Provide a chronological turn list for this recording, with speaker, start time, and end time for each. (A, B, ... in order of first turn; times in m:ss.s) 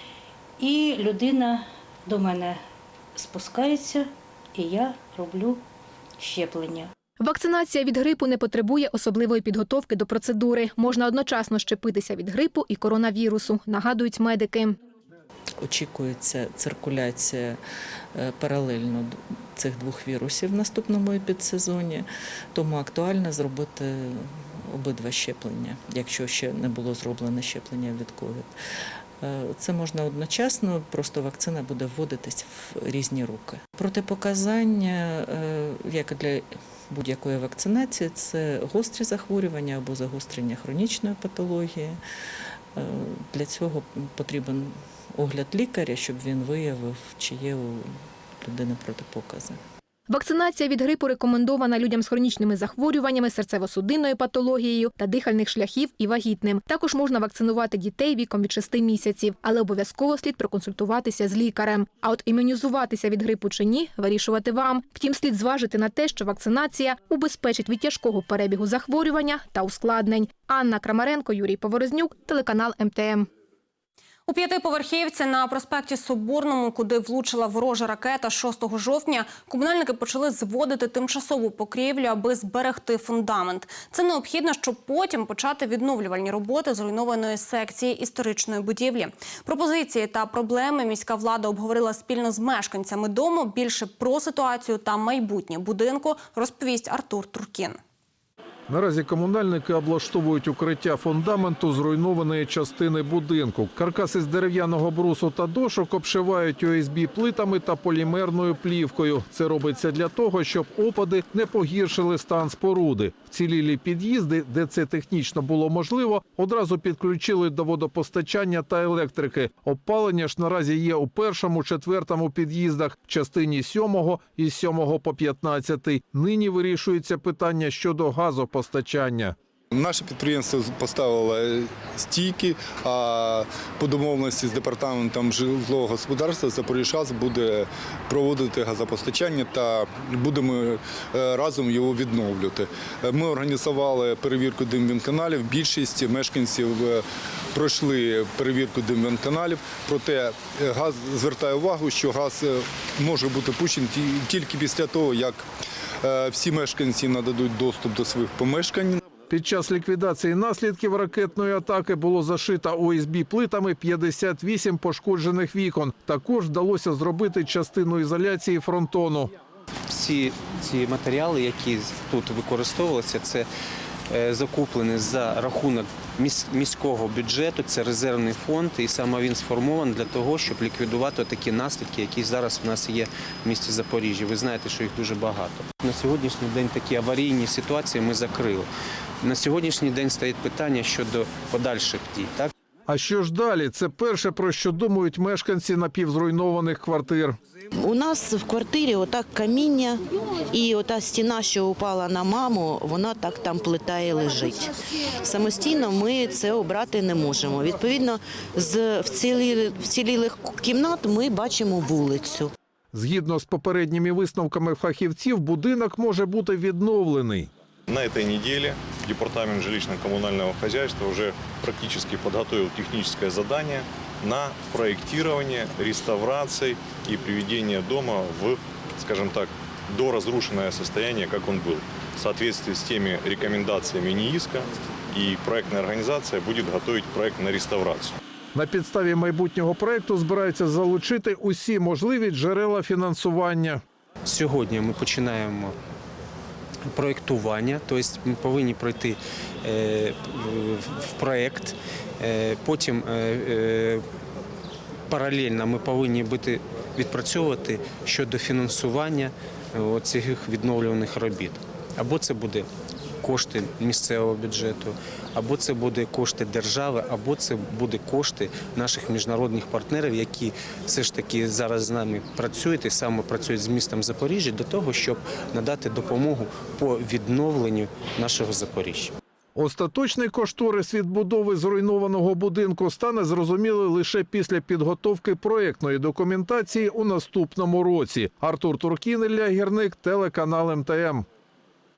0:00.6-0:02.6 A
0:03.1-0:05.6 A
0:06.2-0:06.9 A
0:07.2-0:14.8 B
0:15.6-0:17.6 C
0:18.1-0:28.5 C
0:29.2-0:42.0 C
0:42.7-0:49.6 C
0:50.1-1:13.3 B
1:14.3-1:37.8 D
1:38.7-2:09.4 E
2:09.7-2:35.4 F
2:36.0-2:39.0 F
2:39.3-2:49.3 E
2:49.9-2:53.5 G
2:54.1-3:08.7 G
3:09.2-3:12.5 G
3:12.9-3:17.4 E
3:17.7-3:20.0 H
3:20.5-3:32.5 H
3:32.9-3:37.5 E
3:37.9-3:58.1 I
3:58.5-4:03.8 E
4:04.2-4:05.8 G
4:06.9-4:14.0 G
4:15.1-4:22.7 G
4:23.2-4:39.1 G
4:39.5-4:51.2 E